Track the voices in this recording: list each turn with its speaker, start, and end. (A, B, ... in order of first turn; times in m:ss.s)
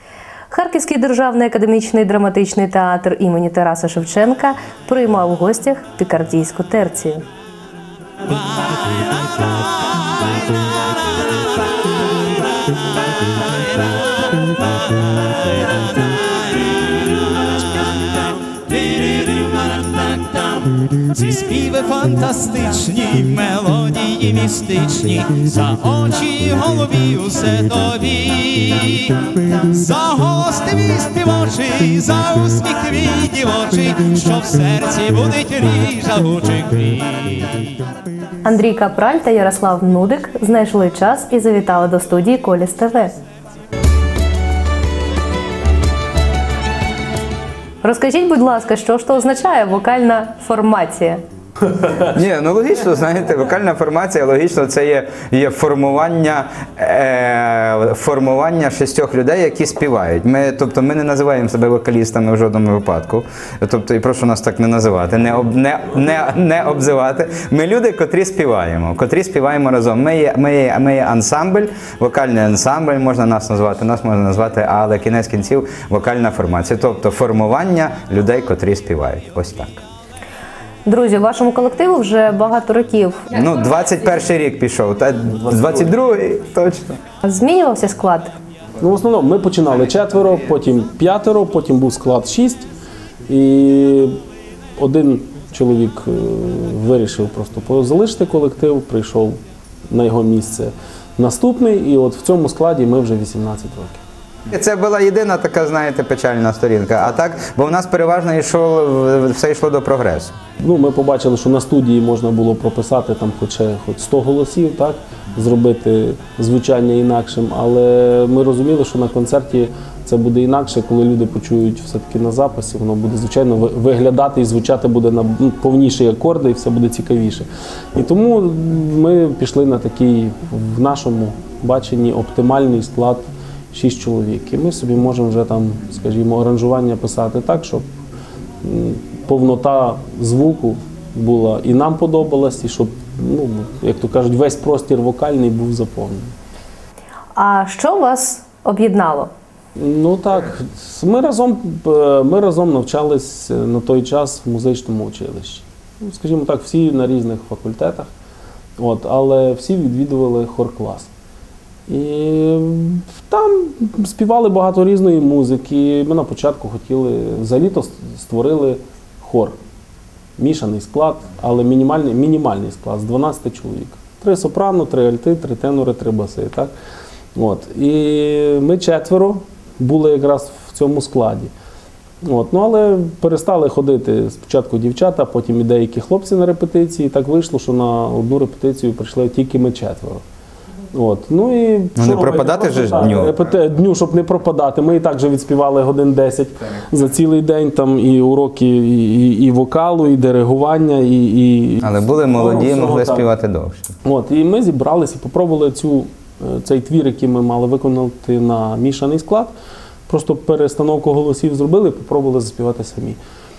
0:00.5-0:07.2 A
0:18.5-0:37.5 B
0:38.4-0:43.2 A
0:47.8-0:51.2 A
0:51.8-1:19.8 C
1:20.8-1:23.3 A
1:23.3-1:27.0 C
1:25.4-1:25.9 D
1:27.2-1:28.3 A
1:28.8-1:32.7 D
1:33.3-1:34.1 D
1:34.8-1:39.4 D
1:39.9-1:44.0 D
1:44.5-1:50.3 C
1:50.6-2:17.8 D
2:18.6-2:26.3 D
2:27.4-2:29.3 A
2:29.8-2:38.1 D
2:38.8-2:41.1 D
2:41.9-2:49.6 D
2:50.4-2:56.7 D
2:57.3-3:01.5 D
3:02.2-3:10.2 D
3:10.9-3:23.3 D
3:12.0-3:13.4 C
3:21.8-3:23.9 C
3:24.0-3:29.5 D
3:30.1-3:33.2 D